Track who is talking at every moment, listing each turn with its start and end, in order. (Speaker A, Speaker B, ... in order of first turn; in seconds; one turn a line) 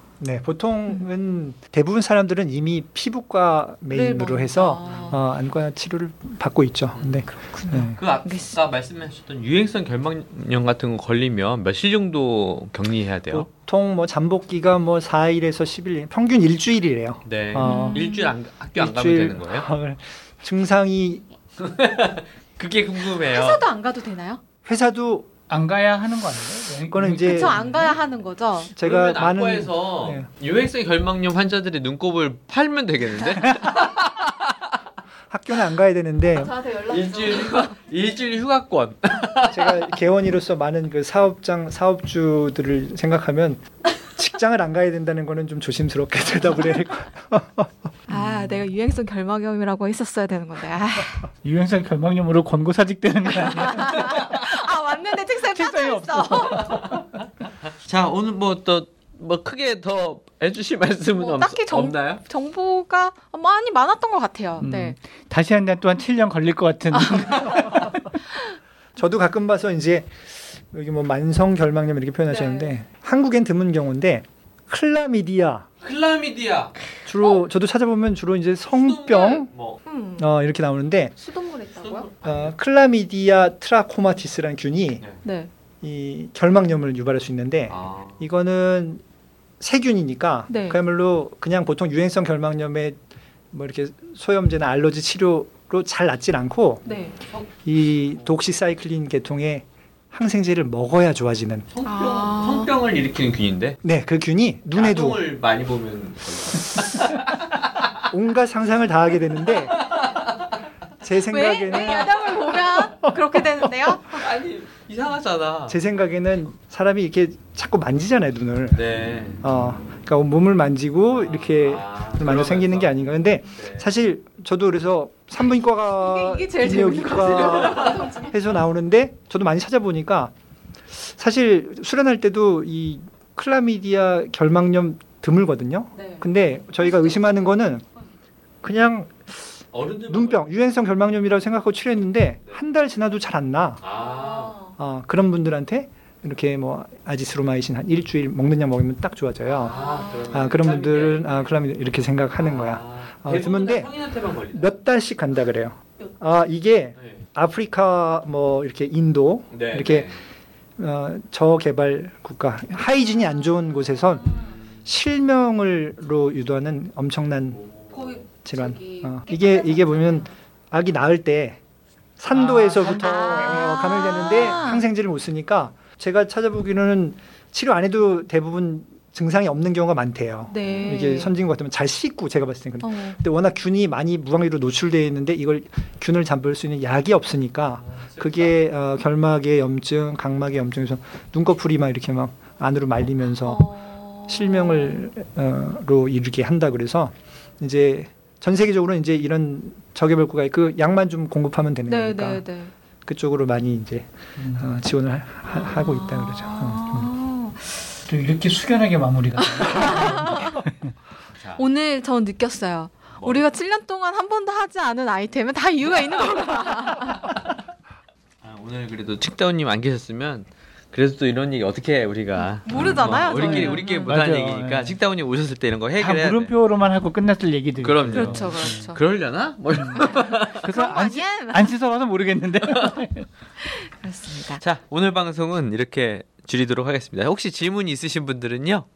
Speaker A: 0.2-8.0
Speaker B: 3.9-5.2
Speaker C: 4.8-5.1
Speaker C: 7.0-7.3
Speaker B: 7.3-8.6
Speaker C: 8.0-13.5
Speaker A: 13.3-18.1
Speaker C: 17.3-19.7
Speaker B: 17.6-18.3
Speaker A: 18.8-21.2
Speaker C: 21.6-23.6
Speaker B: 23.2-24.4
Speaker A: 24.6-25.3
Speaker D: 25.5-27.7
Speaker A: 26.9-27.6
Speaker B: 27.2-28.7
Speaker A: 28.8-30.3
Speaker C: 28.8-34.5
Speaker A: 35.3-36.5
Speaker B: 36.3-37.8
Speaker C: 36.9-39.9
Speaker A: 39.5-47.7
Speaker B: 48.1-51.2
Speaker D: 51.4-54.3
Speaker B: 53.3-56.9
Speaker D: 55.5-56.9
Speaker C: 57.8-62.2
Speaker B: 61.2-65.0
Speaker D: 64.6-68.0
Speaker B: 66.9-67.7
Speaker A: 69.0-75.7
Speaker B: 72.3-72.7
Speaker C: 75.8-76.8
Speaker A: 77.1-79.5
Speaker C: 78.7-79.8
Speaker B: 79.9-80.3
Speaker A: 80.2-81.1
Speaker B: 81.2-82.1
Speaker C: 81.8-82.5
Speaker A: 82.2-85.0
Speaker B: 85.2-85.5
Speaker A: 85.8-89.0
Speaker C: 87.7-88.2
Speaker A: 89.6-93.0
Speaker B: 90.5-90.8
Speaker A: 93.5-96.8
Speaker B: 96.8-97.2
Speaker C: 96.9-97.5
Speaker A: 97.6-101.7
Speaker C: 101.7-103.8
Speaker B: 101.8-102.7
Speaker A: 103.8-105.2
Speaker C: 104.7-107.9
Speaker A: 108.1-109.8
Speaker C: 109.7-110.5
Speaker A: 111.0-113.4
Speaker B: 111.3-114.2
Speaker C: 114.1-115.8
Speaker A: 115.7-118.8
Speaker C: 118.7-119.4
Speaker A: 119.4-130.3
Speaker C: 121.1-123.9
Speaker B: 125.9-128.3
Speaker C: 127.2-128.0
Speaker A: 130.9-137.8
Speaker B: 135.9-136.3
Speaker B: 136.8-137.1
Speaker A: 138.6-143.8
Speaker C: 139.7-140.4
Speaker C: 143.8-144.6
Speaker B: 144.0-144.7
Speaker A: 144.8-149.8
Speaker C: 149.6-151.6
Speaker B: 149.6-150.4
Speaker A: 150.3-153.9
Speaker C: 152.4-154.7
Speaker A: 154.5-160.1
Speaker C: 159.5-160.2
Speaker A: 160.8-167.6
Speaker B: 164.2-164.6
Speaker C: 164.2-164.8
Speaker C: 167.6-167.9
Speaker B: 167.9-170.3
Speaker A: 168.4-171.6
Speaker A: 172.2-193.7
Speaker D: 172.3-173.7
Speaker B: 172.8-174.8
Speaker B: 180.5-181.3
Speaker B: 182.8-183.2
Speaker C: 187.9-188.5
Speaker B: 193.4-195.0
Speaker A: 194.3-202.4
Speaker B: 201.9-202.7
Speaker A: 203.1-207.1
Speaker D: 204.4-204.7
Speaker B: 205.7-208.0
Speaker D: 208.1-210.8
Speaker B: 209.4-210.6
Speaker C: 211.4-211.6
Speaker B: 211.6-217.3
Speaker C: 218.4-226.5
Speaker B: 222.4-224.1
Speaker D: 222.7-225.0
Speaker D: 226.0-228.9
Speaker C: 227.8-230.6
Speaker B: 228.1-229.0
Speaker D: 229.8-233.3
Speaker B: 230.0-231.7
Speaker B: 233.6-234.6
Speaker C: 234.6-238.9